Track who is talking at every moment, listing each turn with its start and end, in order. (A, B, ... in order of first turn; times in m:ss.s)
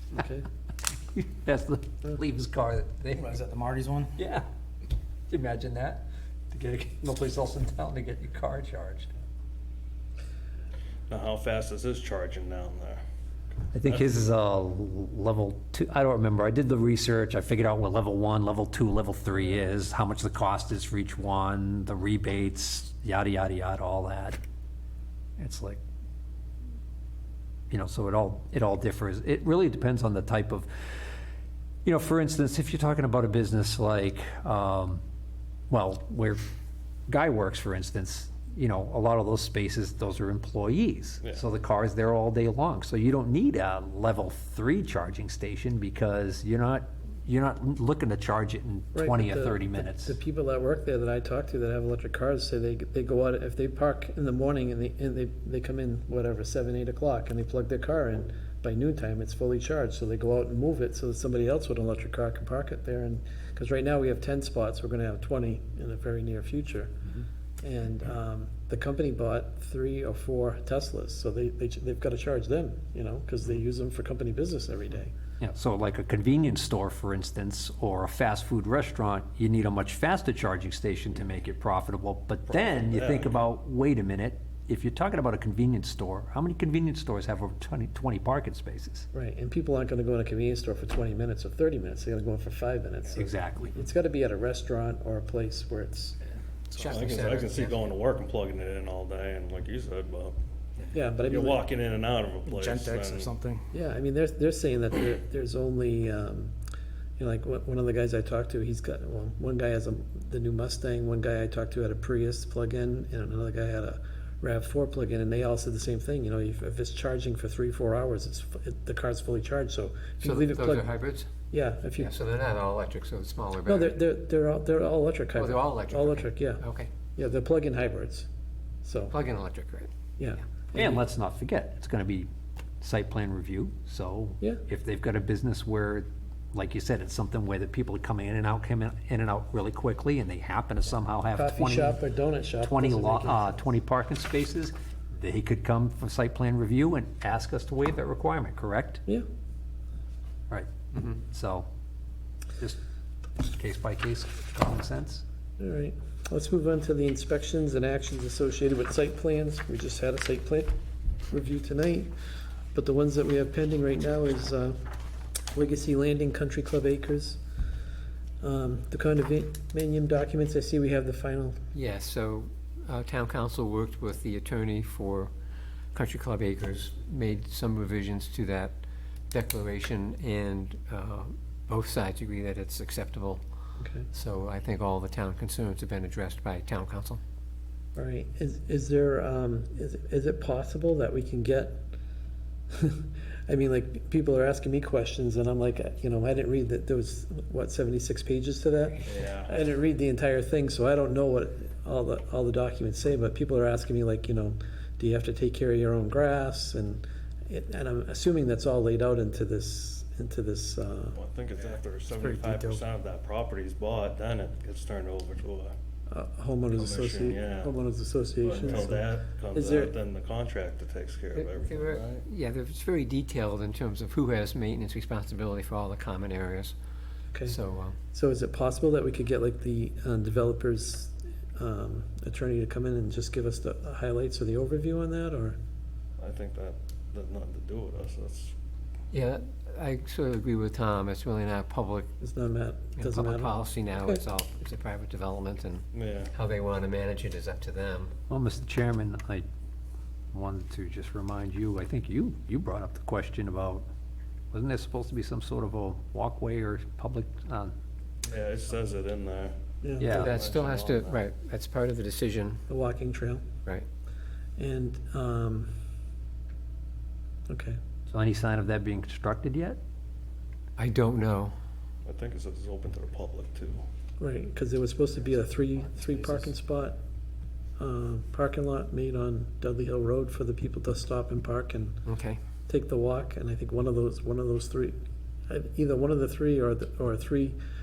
0:00.2-0:00.4 A
0:01.1-0:03.4 B
0:03.2-0:04.1 C
0:04.2-0:04.4 B
0:05.3-0:09.1 B
0:11.1-0:13.0 D
0:13.7-0:24.4 B
0:25.4-0:25.8 B
0:27.7-0:31.0 B
0:31.8-0:35.0 B
0:35.7-0:36.4 B
0:37.1-0:50.2 B
0:48.9-1:07.1 A
1:07.6-1:15.2 A
1:15.4-1:29.1 B
1:22.5-1:23.4 D
1:29.1-1:36.2 A
1:33.2-1:33.8 B
1:36.7-1:37.2 C
1:36.8-1:37.8 E
1:36.8-1:40.4 D
1:40.9-1:41.6 A
1:41.3-1:41.6 C
1:41.3-1:43.3 D
1:42.4-1:43.7 C
1:43.7-1:46.5 A
1:47.2-2:00.9 A
2:00.2-2:01.3 E
2:01.5-2:02.1 A
2:02.0-2:04.0 E
2:03.6-2:06.6 A
2:05.4-2:06.9 E
2:07.2-2:08.3 A
2:08.8-2:09.2 A
2:09.1-2:09.9 E
2:10.2-2:10.9 A
2:10.7-2:12.3 B
2:12.8-2:22.0 B
2:21.4-2:23.6 A
2:22.6-2:29.0 B
2:30.5-2:31.7 B
2:33.4-2:35.2 B
2:35.6-2:40.7 A
2:41.3-2:42.1 A
2:42.7-2:44.8 A
2:45.5-2:47.4 A
2:48.4-2:51.6 A
2:51.7-2:55.3 E
2:55.9-2:58.8 E
2:59.3-3:03.4 E
3:03.8-3:04.1 A
3:04.1-3:07.2 E
3:08.0-3:11.8 A
3:12.7-3:31.2 A
3:19.1-3:19.5 D
3:31.2-3:35.7 D
3:36.1-3:40.0 A
3:36.7-3:37.7 D
3:38.4-3:42.2 D
3:41.3-3:46.8 E
3:47.4-3:48.0 E
3:48.1-3:55.6 A
3:56.2-3:58.5 D
3:59.1-4:02.1 E
4:02.2-4:03.5 A
4:03.0-4:08.1 E
4:05.9-4:06.3 D
4:08.3-4:09.5 B
4:10.3-4:13.9 B
4:14.5-4:17.7 B
4:18.3-4:21.2 D
4:19.8-4:20.2 A
4:20.0-4:20.3 B
4:20.1-4:22.6 E
4:22.7-4:23.4 A
4:24.6-4:25.7 A
4:27.5-4:27.8 A
4:28.1-4:29.8 B
4:30.8-4:31.6 E
4:32.0-4:33.8 D
4:34.2-4:37.0 A
4:37.8-4:42.0 A
4:42.0-4:42.4 E
4:42.7-4:45.0 A
4:45.5-4:47.6 A